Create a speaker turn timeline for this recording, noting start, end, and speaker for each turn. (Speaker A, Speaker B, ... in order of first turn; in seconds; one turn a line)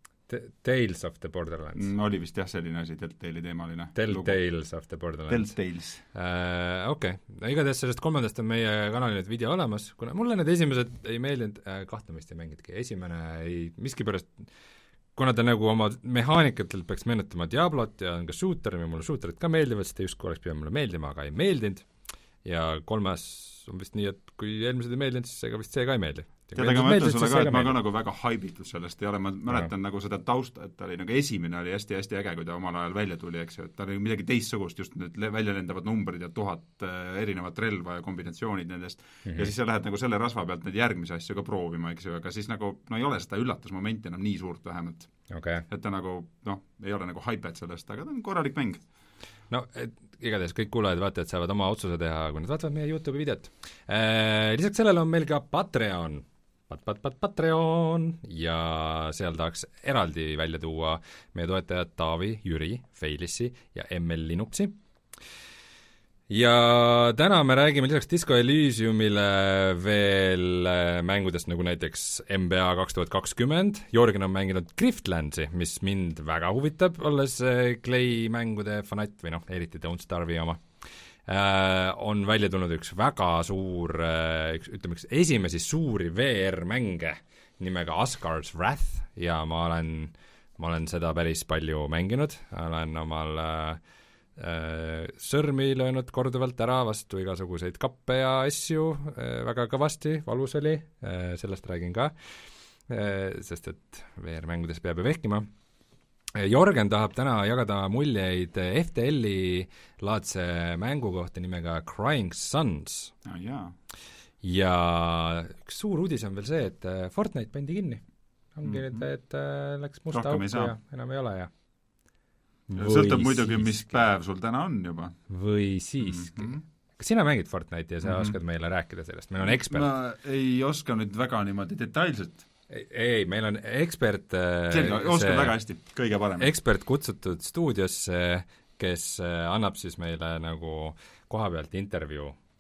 Speaker A: 0.3-1.9
Speaker B: 1.8-4.4
Speaker A: 4.0-5.6
Speaker B: 5.3-6.0
Speaker A: 6.1-14.5
Speaker A: 15.1-27.8
Speaker B: 26.5-48.9
Speaker A: 39.3-39.5
Speaker A: 45.3-45.6
Speaker A: 49.5-64.8
Speaker A: 66.3-93.8
Speaker A: 94.3-105.5
Speaker A: 106.3-113.1
Speaker B: 113.2-113.7
Speaker A: 114.4-121.5
Speaker B: 118.6-119.1
Speaker B: 120.1-120.8
Speaker A: 122.7-124.0
Speaker B: 122.7-125.4
Speaker A: 125.3-129.9
Speaker B: 126.0-126.6
Speaker B: 128.0-128.4
Speaker B: 129.4-132.5
Speaker A: 132.7-135.6
Speaker B: 134.7-136.5
Speaker A: 136.4-142.4